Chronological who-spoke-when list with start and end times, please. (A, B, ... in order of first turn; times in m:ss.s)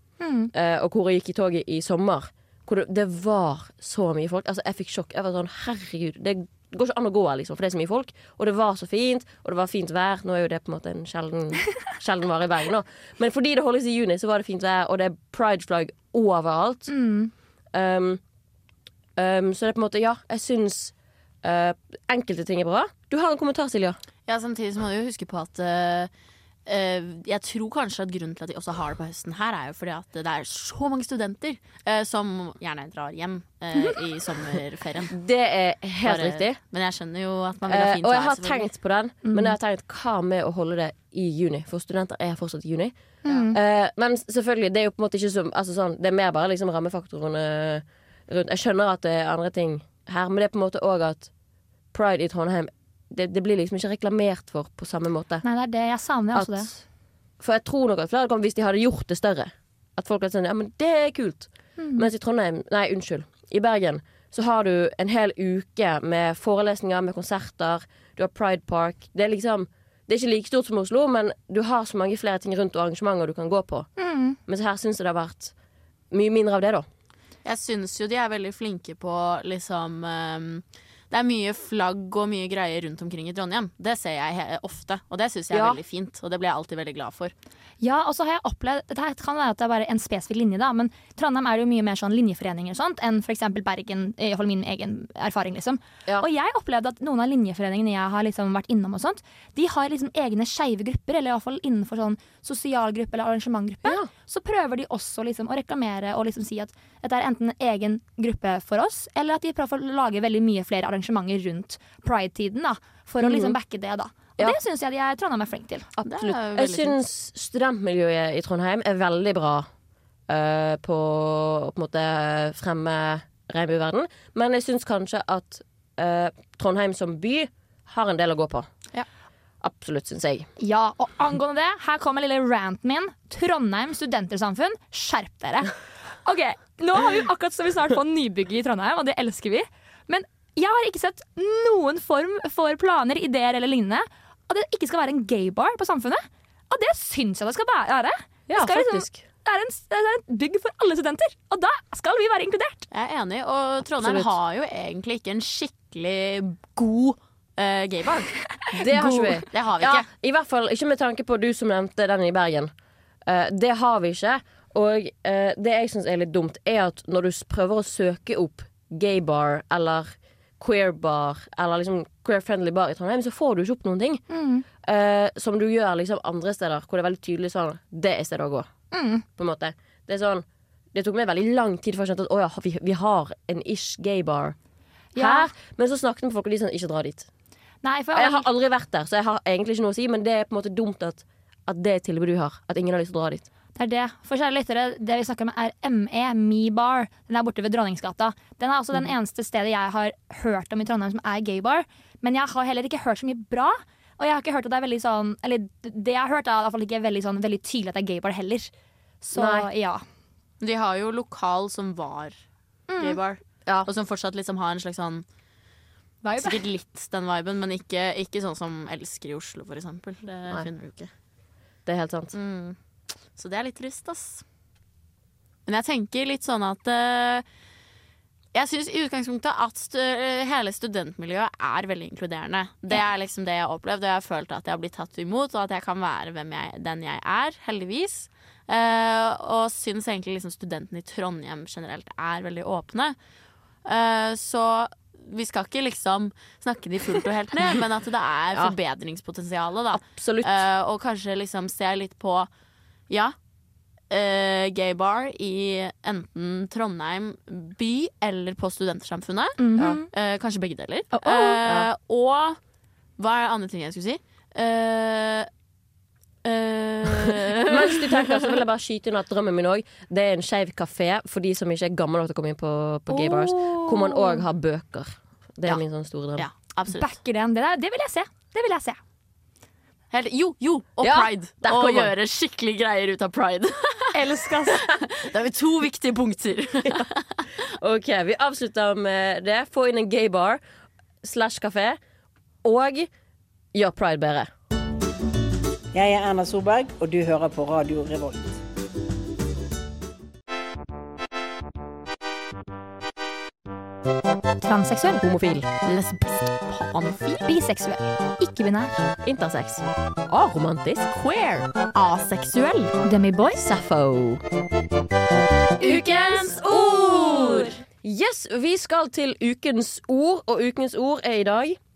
0:00.2-0:00.5 A
0:00.5-0:16.9 B
0:16.9-0:17.3 A
0:17.7-0:18.2 B
0:19.2-0:24.0 B
0:24.3-0:26.1 C
0:26.6-0:35.1 C
0:35.1-0:36.6 B
0:36.0-0:38.7 C
0:37.7-0:42.9 B
0:39.2-0:39.6 A
0:43.2-0:43.6 A
0:43.5-0:51.3 B
0:51.9-0:55.4 B
0:55.4-0:56.7 A
0:56.3-0:56.8 B
0:57.4-1:13.9 B
1:01.8-1:02.1 A
1:14.0-1:14.4 A
1:14.5-1:15.5 B
1:16.1-1:16.8 B
1:17.4-1:27.3 C
1:25.5-1:25.8 B
1:27.8-1:55.9 A
1:43.8-1:44.1 B
1:53.2-1:53.6 B
1:56.0-1:59.7 B
1:56.0-1:57.0 C
2:00.3-2:08.7 B
2:09.6-2:10.5 B
2:10.6-2:32.9 A
2:28.5-2:29.2 B
2:32.9-2:38.3 C
2:34.0-2:34.3 B
2:38.7-2:42.7 B
2:38.9-2:40.0 C
2:38.9-2:39.4 A
2:43.2-2:54.2 B
2:54.3-2:54.6 A
2:54.8-2:58.7 B
2:58.9-2:59.2 A
2:59.4-3:04.6 B
3:05.1-3:05.5 A
3:05.2-3:07.3 B
3:07.8-3:08.4 A
3:08.1-3:13.4 B
3:13.8-3:30.0 A
3:29.3-3:29.7 B
3:30.6-3:32.4 C
3:32.9-3:33.2 A
3:33.0-3:35.2 C
3:36.2-3:36.6 A
3:36.4-3:41.1 C
3:41.8-3:42.3 B
3:42.3-3:42.8 C
3:43.3-3:44.4 C
3:45.6-3:47.4 C
3:48.5-4:03.2 C
4:03.8-4:12.5 C
4:09.9-4:10.6 B
4:13.1-4:13.3 C
4:14.1-4:22.6 C
4:19.6-4:20.1 A
4:23.2-4:25.5 C
4:26.4-4:28.4 C
4:27.6-4:36.5 B
4:33.1-4:34.4 A
4:36.4-4:37.1 C
4:36.9-4:39.0 A
4:40.1-4:44.2 C
4:41.0-4:42.1 B
4:44.1-4:44.8 A
4:44.7-4:47.2 C
4:47.8-4:50.6 B
4:51.2-4:52.0 B
4:52.6-4:53.1 B
4:53.7-4:54.5 B
4:55.9-4:58.6 D
5:04.6-5:05.2 A
5:05.2-5:05.7 B
5:05.8-5:07.4 C
5:07.4-5:09.1 A
5:09.2-5:11.1 B
5:11.1-5:12.9 C
5:13.0-5:13.6 A
5:13.6-5:14.4 B
5:15.8-5:21.8 B
5:15.8-5:17.3 C